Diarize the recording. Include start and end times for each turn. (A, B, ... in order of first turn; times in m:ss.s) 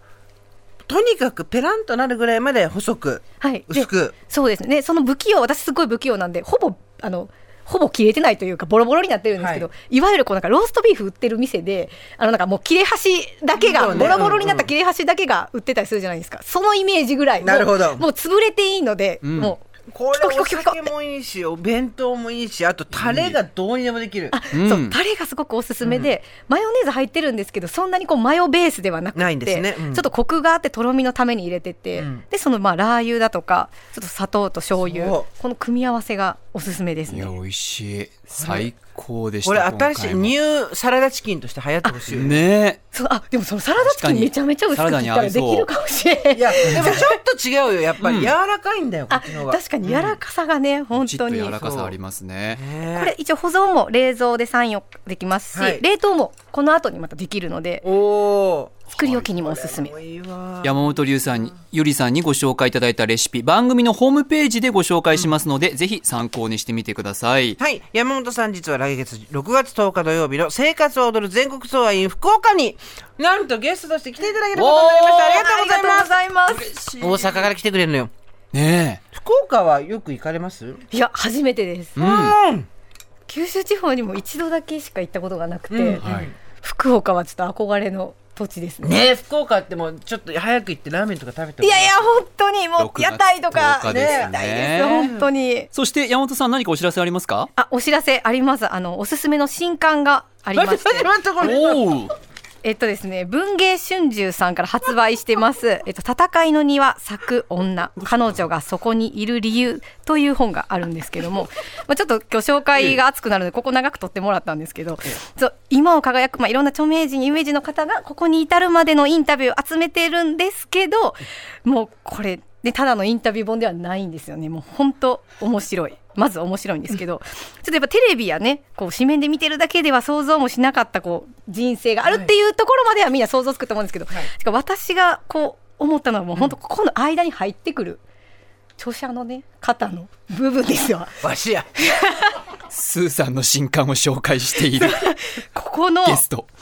0:00.9-0:04.1 A
0:03.4-0:20.9 B
0:09.4-0:09.7 A
0:13.6-0:14.7 A
0:17.4-0:18.0 A
0:19.2-0:19.5 C
0:19.9-0:24.4 A
0:22.9-0:23.4 C
0:24.3-0:37.3 B
0:24.5-0:24.9 C
0:25.8-0:26.1 A
0:29.1-0:30.1 A
0:32.0-0:32.2 A
0:34.8-0:35.3 A
0:37.1-0:40.3 C
0:38.4-0:38.7 A
0:39.4-0:42.4 A
0:42.1-0:42.8 C
0:42.9-0:47.0 B
0:43.8-0:45.7 C
0:46.4-0:50.2 A
0:46.7-0:47.0 C
0:48.0-0:48.3 C
0:49.1-0:51.9 B
0:50.9-0:52.6 C
0:52.5-0:53.1 A
0:52.9-0:57.8 B
0:55.5-0:55.8 A
0:57.8-1:00.8 A
0:58.9-0:59.9 B
1:00.6-1:07.6 C
1:07.6-1:16.2 A
1:14.5-1:15.5 C
1:15.2-1:16.7 B
1:16.5-1:17.5 C
1:17.0-1:18.1 A
1:18.5-1:19.0 C
1:19.1-1:20.8 A
1:20.9-1:22.0 B
1:22.0-1:22.4 C
1:22.0-1:22.7 A
1:23.3-1:26.0 B
1:25.7-1:26.3 A
1:26.0-1:26.3 C
1:26.6-1:29.0 B
1:28.8-1:32.0 A
1:31.6-1:35.7 B
1:32.8-1:35.1 C
1:33.9-1:34.3 A
1:35.7-1:37.5 C
1:37.5-1:41.1 B
1:40.5-1:41.9 A
1:41.4-1:42.1 C
1:42.6-2:18.0 B
2:18.8-2:21.2 B
2:21.2-2:21.7 A
2:21.8-2:22.4 B
2:22.7-2:25.1 C
2:24.7-2:26.2 B
2:26.0-2:26.5 C